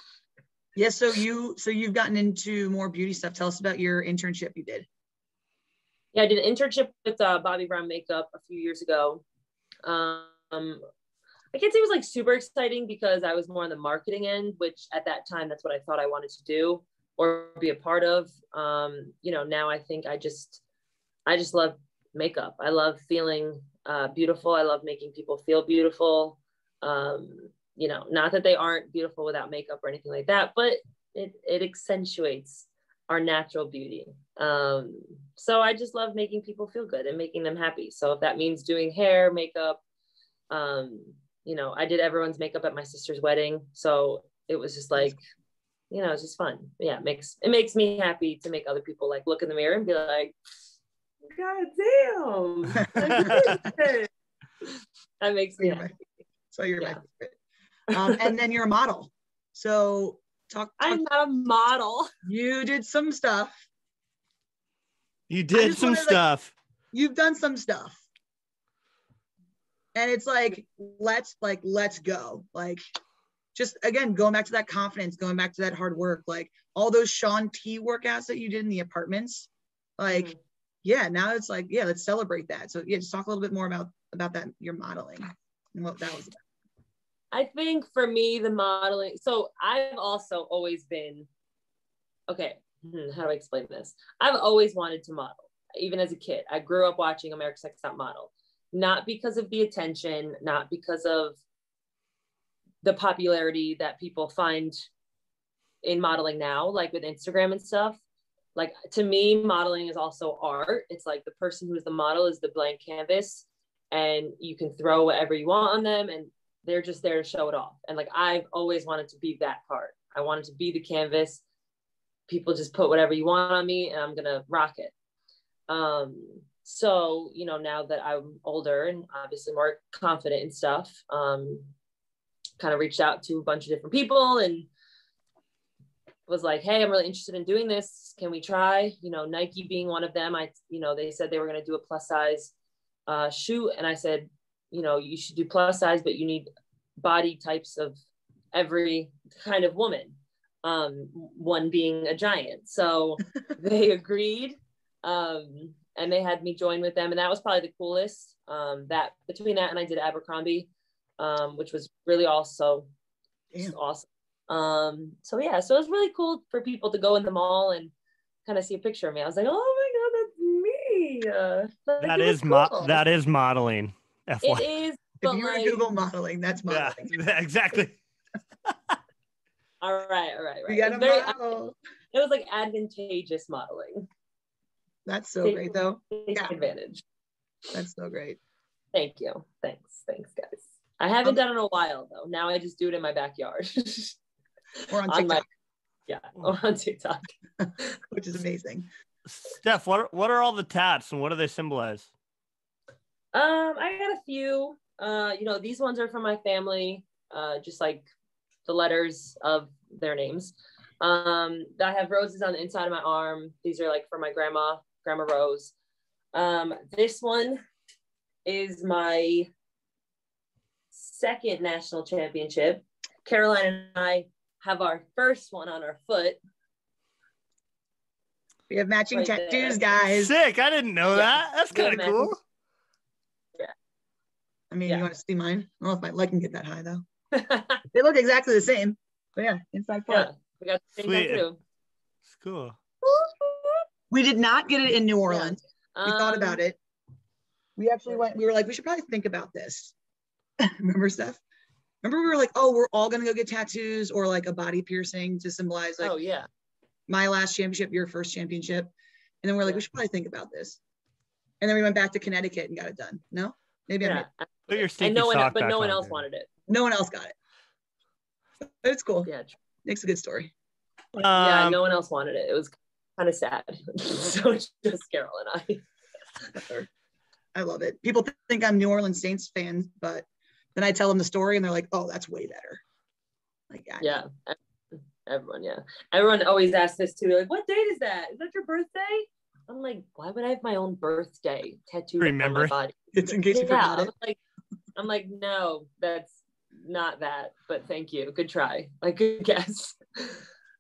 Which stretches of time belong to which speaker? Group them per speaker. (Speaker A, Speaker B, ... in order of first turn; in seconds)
Speaker A: 0.8-4.9, 52.8-53.6, 55.6-55.9, 56.5-57.4, 57.9-61.0, 62.2-63.6, 65.5-66.2, 66.9-68.0, 69.9-72.8, 73.5-80.3, 80.8-86.4, 175.2-177.2, 180.7-181.7, 185.1-186.5, 187.7-188.4, 194.9-195.4, 197.6-198.9, 228.7-230.3, 234.7-237.0, 237.9-240.3, 244.1-246.8, 247.8-249.9, 250.6-251.4, 252.0-256.1, 257.1-260.8, 261.6-264.3, 266.7-267.4, 268.7-269.3, 269.9-270.5, 276.5-276.9, 277.5-280.2, 280.8-282.8, 283.7-284.2, 293.1-294.1
Speaker B: 6.1-9.2, 9.8-10.8, 11.5-20.6, 21.2-39.8, 40.5-45.2, 45.9-50.4, 51.3-54.1, 54.6-55.9, 57.9-58.3, 60.8-62.1, 80.1-80.4, 87.3-91.3, 92.3-101.4, 102.8-104.8, 105.8-108.0, 108.6-121.4, 122.3-124.9, 125.7-131.7, 132.6-134.7, 136.3-142.5, 143.1-148.0, 148.5-162.9, 163.6-167.9, 168.5-173.0, 174.4-175.8, 179.8-181.6, 182.1-184.1, 185.4-187.0, 188.9-194.2, 194.8-195.4, 196.1-197.3, 203.3-208.1, 208.7-215.7, 216.3-217.6, 218.4-219.5, 220.9-226.4, 229.1-229.8, 231.1-232.3, 237.3-237.8, 240.1-241.6, 243.0-243.8, 245.3-246.6, 256.0-256.5, 264.0-266.5, 269.2-269.6, 271.4-275.9, 284.0-292.9, 293.5-294.4, 295.0-300.5
Speaker C: 52.9-53.5, 65.3-66.5, 172.0-174.7, 176.7-178.0, 178.7-179.0, 199.3-202.1, 230.1-232.4, 241.0-241.5, 242.3-242.8, 264.7-266.2, 271.1-271.8, 292.2-292.8